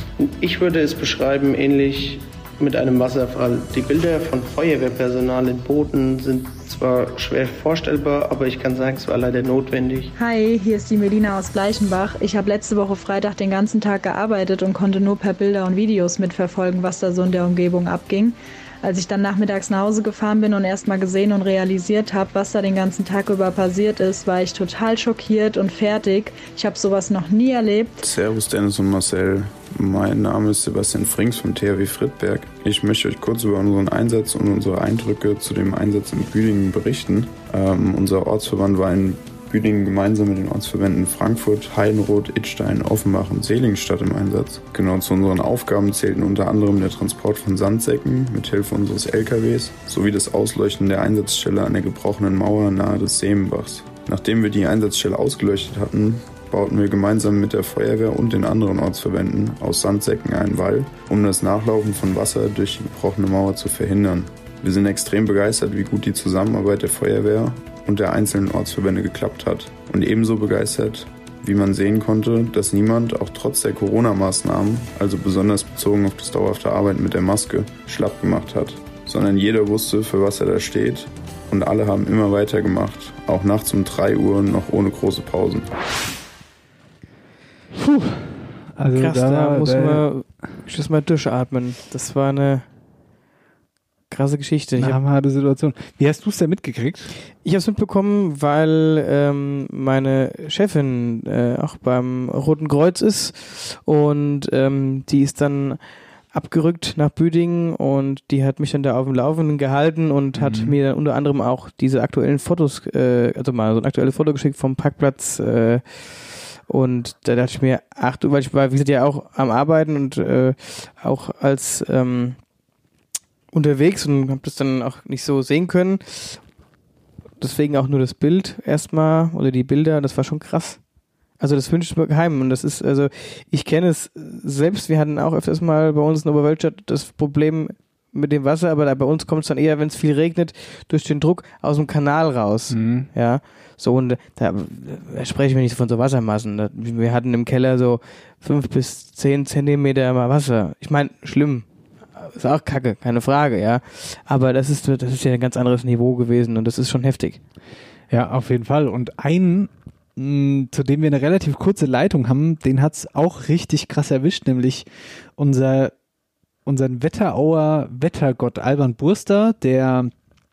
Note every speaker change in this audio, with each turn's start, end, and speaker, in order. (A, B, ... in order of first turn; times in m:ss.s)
0:00.2-0:10.1 A
0:10.2-0:27.9 B
0:28.0-1:25.7 C
1:27.7-1:30.0 D
1:28.9-1:32.7 E
1:34.1-1:35.0 E
1:34.8-1:37.1 D
1:37.4-1:45.8 E
1:46.3-1:55.8 E
1:50.4-1:50.8 D
1:56.7-2:02.4 E
2:03.5-2:06.4 E
2:07.4-2:10.8 E
2:11.4-2:31.6 E
2:22.7-2:23.1 D
2:32.2-2:37.4 E
2:38.1-2:45.9 D
2:46.6-2:50.1 D